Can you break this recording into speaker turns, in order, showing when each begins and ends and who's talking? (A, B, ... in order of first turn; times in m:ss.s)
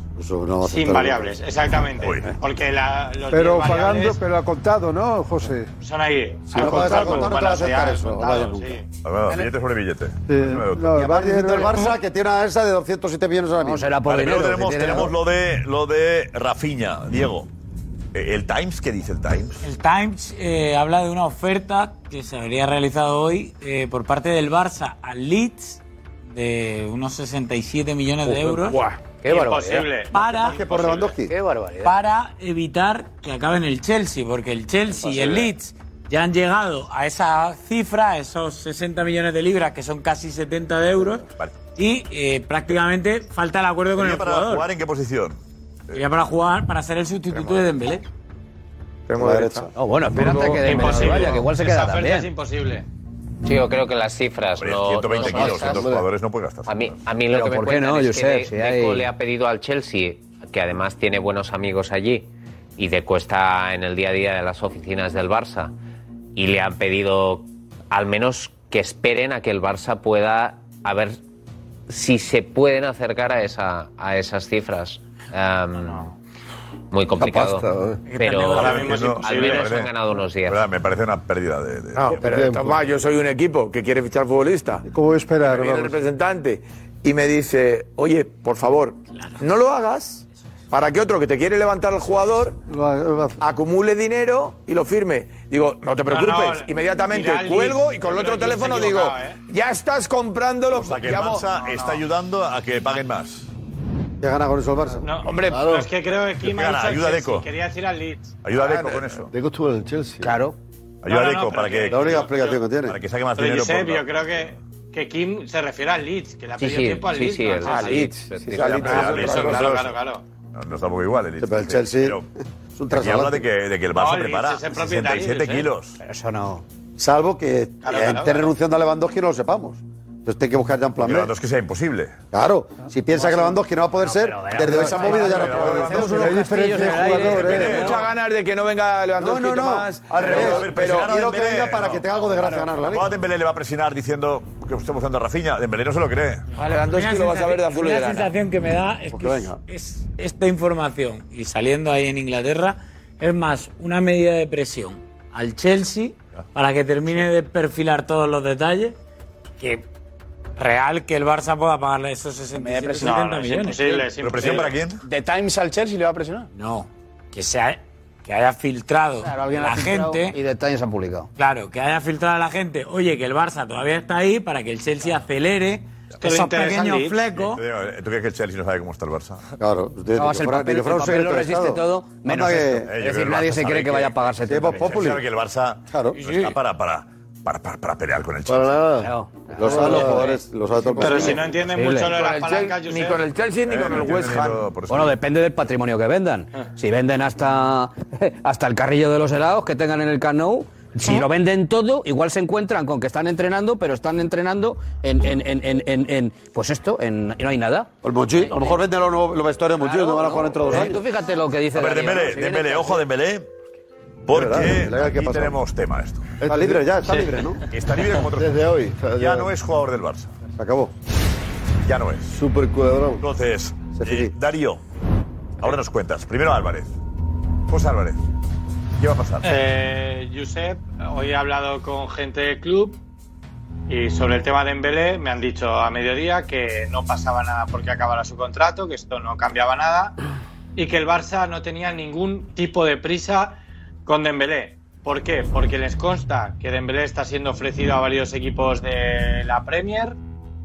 0:00.2-0:01.4 A
0:00.6-0:04.2 B
0:02.0-0:02.4 C
0:03.3-0:05.7 D
0:05.8-0:08.8 B
0:06.5-0:08.8 A
0:06.5-0:06.9 D
0:09.0-0:11.0 C
0:10.3-0:11.9 D
0:10.9-0:14.0 A
0:13.6-0:15.1 E
0:14.0-0:17.5 C
0:18.1-0:19.6 C
0:19.6-0:28.8 F
0:28.3-0:28.5 E
0:29.0-0:29.9 E
0:29.2-0:31.2 B
0:30.1-0:30.5 F
0:30.4-0:31.3 A
0:31.2-0:31.9 E
0:31.8-0:44.7 F
0:41.3-0:41.6 C
0:44.0-0:45.4 C
0:45.9-0:48.0 F
0:49.1-0:49.7 G
0:49.2-0:49.7 A
0:49.7-0:52.3 E
0:50.5-0:52.8 B
0:53.4-0:55.8 H
0:54.6-0:57.0 C
0:55.2-0:55.7 E
0:55.4-0:56.0 I
0:56.7-1:05.7 H
0:57.3-0:59.1 E
1:06.4-1:11.2 H
1:11.9-1:16.1 H
1:16.9-1:20.6 H
1:17.2-1:18.0 I
1:18.1-1:18.8 F
1:18.6-1:22.4 C
1:18.6-1:19.7 B
1:22.0-1:24.8 G
1:22.2-1:22.8 I
1:24.9-1:26.0 D
1:25.4-1:32.6 G
1:29.1-1:29.4 F
1:32.7-1:33.4 D
1:33.4-1:41.5 G
1:36.1-1:39.4 B
1:40.7-1:43.5 C
1:41.5-1:42.0 B
1:44.2-1:45.0 A
1:45.0-1:48.4 B
1:45.4-1:45.9 I
1:46.4-1:47.5 C
1:48.4-1:49.3 C
1:49.3-1:50.4 I
1:50.2-1:50.6 E
1:51.0-1:54.5 C
1:51.1-1:52.7 B
1:51.9-1:53.0 A
1:53.4-1:58.2 B
1:56.6-1:59.0 H
1:57.7-1:59.6 G
1:58.6-1:59.9 C
1:58.8-2:00.2 B
2:00.5-2:02.2 C
2:01.4-2:02.2 A
2:02.8-2:03.5 A
2:02.9-2:06.0 C
2:03.9-2:05.7 B
2:06.0-2:06.6 E
2:07.0-2:11.3 A
2:07.8-2:08.5 B
2:11.0-2:12.2 C
2:12.3-2:17.8 A
2:13.1-2:17.9 E
2:14.9-2:18.0 C
2:16.2-2:17.7 D
2:17.7-2:21.2 G
2:19.2-2:23.1 A
2:20.2-2:22.1 C
2:22.8-2:26.4 C
2:26.6-2:28.3 G
2:26.9-2:39.0 F
2:29.1-2:29.6 A
2:39.6-2:39.8 F
2:40.6-2:43.9 F
2:42.8-2:43.0 E
2:42.9-2:44.8 B
2:44.2-2:45.0 C
2:46.5-2:50.4 F
2:49.2-2:51.3 E
2:51.4-2:57.6 F
2:56.2-2:57.3 B
2:57.3-2:59.4 C
2:59.6-3:03.0 A
3:00.1-3:05.1 E
3:02.8-3:08.9 C
3:04.4-3:05.2 A
3:05.9-3:06.2 A
3:06.2-3:06.6 B
3:08.5-3:10.3 I
3:09.0-3:10.4 E
3:09.6-3:11.4 A
3:11.0-3:13.2 B
3:11.0-3:12.2 E
3:12.2-3:14.6 G
3:13.6-3:15.2 C
3:14.9-3:27.9 E
3:28.0-3:31.0 A
3:28.5-3:28.8 E
3:29.8-3:33.0 E
3:31.7-3:33.5 C
3:34.2-3:36.4 C
3:34.3-3:35.6 A
3:36.4-3:36.8 I
3:36.4-3:37.6 A
3:37.7-3:40.3 C
3:38.3-3:39.5 I
3:40.6-3:40.9 A
3:41.8-3:42.3 C
3:42.3-3:43.2 I
3:43.2-3:44.8 C
3:44.0-3:44.3 A
3:45.6-3:46.9 C
3:47.7-3:48.2 C
3:49.0-3:49.6 C
3:49.4-3:53.0 B
3:53.9-4:00.1 B
4:00.8-4:10.2 B